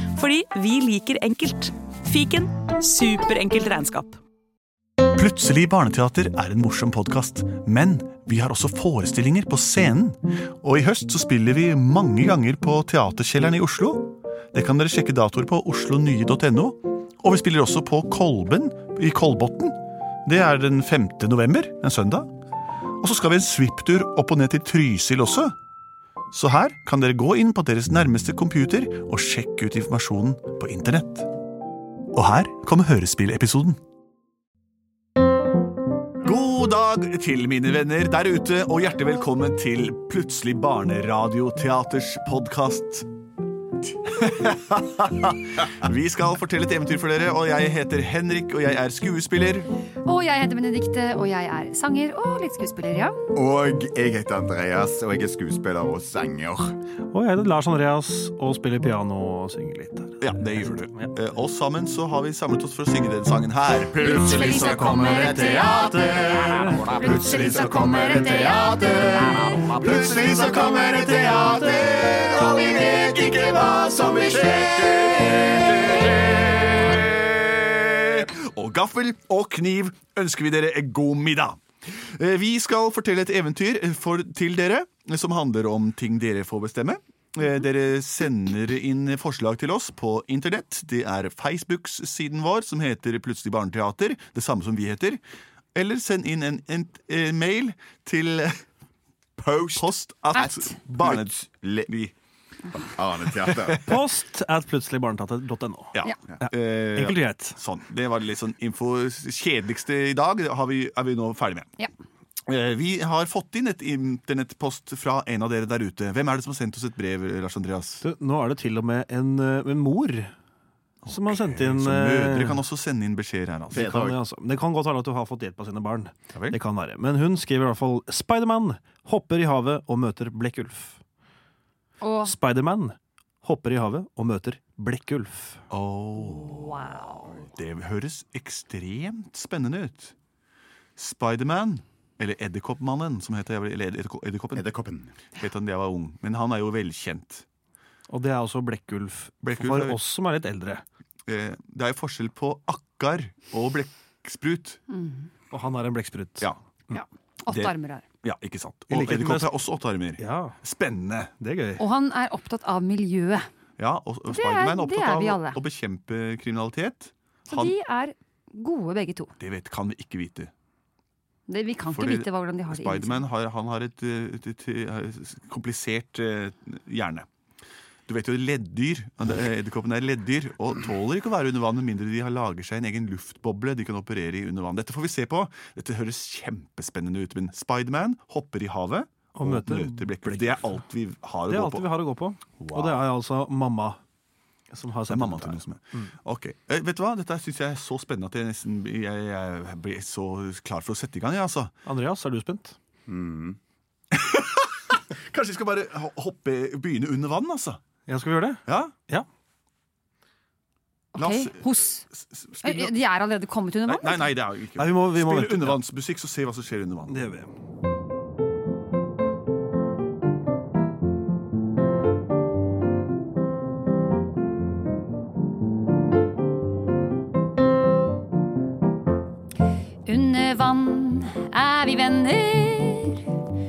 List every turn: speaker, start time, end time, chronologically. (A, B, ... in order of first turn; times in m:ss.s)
0:00.1-0:04.2 A
0:05.2-0:22.3 B
0:23.0-0:25.5 B
0:26.3-0:31.3 B
0:32.1-0:33.8 B
0:36.2-0:43.1 B
0:44.1-0:49.7 B
0:50.0-0:53.2 C
0:53.3-0:56.8 D
0:57.1-1:01.2 E
1:00.2-1:04.1 B
1:03.9-1:16.7 D
1:04.0-1:09.8 C
1:04.7-1:06.8 E
1:09.8-1:10.8 B
1:10.4-1:11.6 E
1:12.6-1:14.0 C
1:14.6-1:21.6 B
1:22.2-1:35.2 B
1:35.8-1:38.6 B
1:39.4-1:41.9 D
1:39.8-1:41.3 B
1:41.9-1:42.1 B
1:42.7-1:43.9 D
1:43.4-1:43.9 B
1:43.8-1:47.6 E
1:46.0-1:51.8 B
1:52.5-1:58.0 B
1:58.0-2:00.3 E
2:01.1-2:02.6 E
2:01.1-2:04.0 B
2:03.7-2:11.0 E
2:03.7-2:04.2 D
2:12.0-2:12.4 C
2:12.2-2:15.6 E
2:15.7-2:20.1 B
2:21.0-2:24.6 B
2:24.6-2:25.2 D
2:25.4-2:27.4 B
2:28.1-2:30.8 E
2:29.4-2:30.0 B
2:31.3-2:34.8 B
2:34.9-2:35.3 C
2:35.5-2:37.0 E
2:36.9-2:38.0 C
2:37.5-2:41.3 B
2:38.9-2:39.5 E
2:40.2-2:40.6 E
2:41.4-2:41.8 E
2:41.8-2:43.5 C
2:43.8-2:47.8 B
2:44.3-2:45.6 C
2:47.5-2:49.3 C
2:49.4-2:50.5 B
2:51.5-2:53.3 C
2:51.9-2:57.3 B
2:58.1-3:11.9 B
3:09.4-3:10.2 E
3:11.5-3:14.0 E
3:12.6-3:13.0 B
3:14.7-3:15.6 E
3:15.1-3:21.7 B
3:21.9-3:22.8 E
3:23.1-3:23.6 D
3:24.1-3:27.8 B
3:28.1-3:29.3 E
3:28.7-3:29.0 B
3:31.1-3:32.0 C
3:31.2-3:33.0 B
3:32.6-3:34.3 C
3:33.9-3:37.2 B
3:34.8-3:35.8 E
3:37.1-3:37.5 E
3:50.1-3:53.3 C